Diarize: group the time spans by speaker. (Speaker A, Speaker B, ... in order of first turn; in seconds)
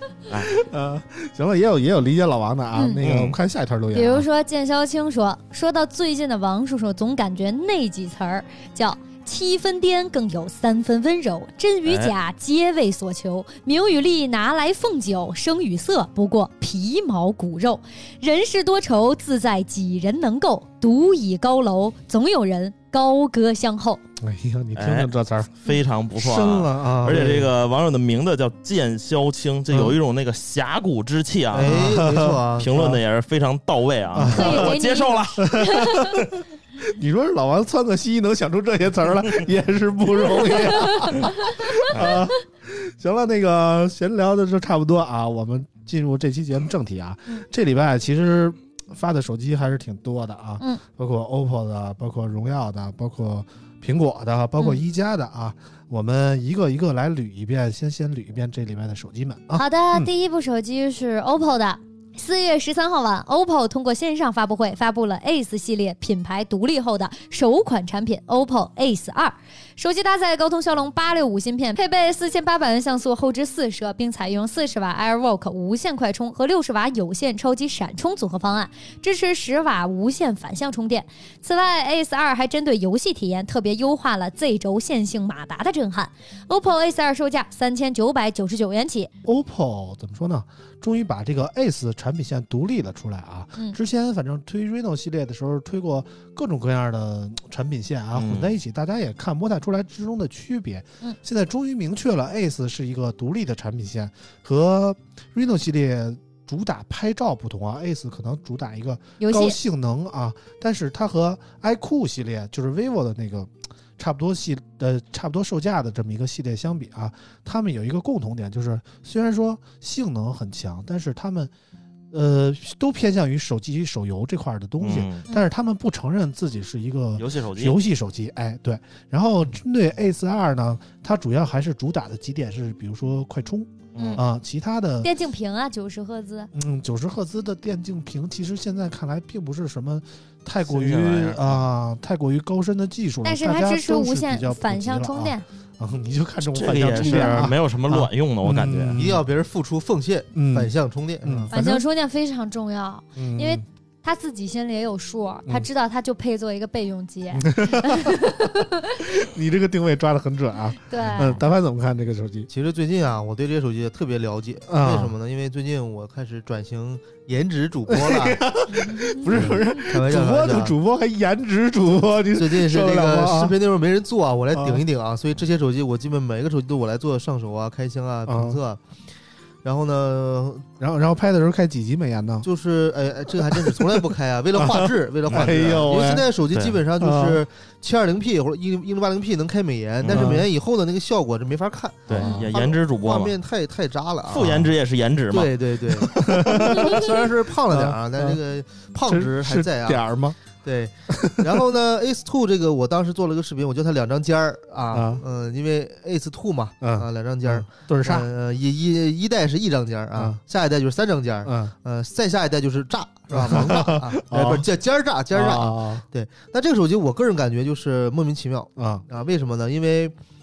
Speaker A: 0.3-0.5, 3.0-3.4, 11.9-12.1, 24.8-35.6, 41.9-42.2, 98.1-98.5, 124.8-125.2, 127.2-127.8, 133.9-134.2, 140.7-141.6, 146.4-149.0, 185.3-185.9, 186.5-186.8, 190.0-190.4, 192.1-193.4, 194.3-195.8
Speaker B: 0.3-4.3, 24.2-25.6, 26.1-27.5, 31.6-33.0, 34.1-34.7, 35.4-60.1, 89.2-121.5, 122.1-135.1, 136.5-149.2, 150.3-151.8, 153.2-153.6, 157.3-158.4, 159.1-162.5, 164.7-165.1, 167.9-173.6, 174.5-174.8, 178.3-178.6, 180.8-182.5, 183.3-186.3, 187.0-187.4, 190.1-190.5, 192.2-192.4, 196.0-198.4, 199.1-200.4, 201.1-201.7, 204.9-205.2, 206.8-208.3, 210.1-210.4, 211.4-211.7, 213.3-214.7, 215.3-216.0, 218.8-219.1
Speaker C: 2.8-3.0, 3.9-24.0, 34.3-36.3, 40.7-41.7, 59.5-89.1, 109.2-109.6, 134.0-134.2, 135.0-136.5, 143.2-145.4, 147.0-147.3, 151.5-159.1, 160.9-161.4, 168.7-169.3
Speaker D: 31.5-32.8, 148.9-151.5, 162.5-168.4, 169.3-170.8, 172.3-178.8, 179.6-180.7, 182.4-194.7, 195.3-200.1, 200.6-220.2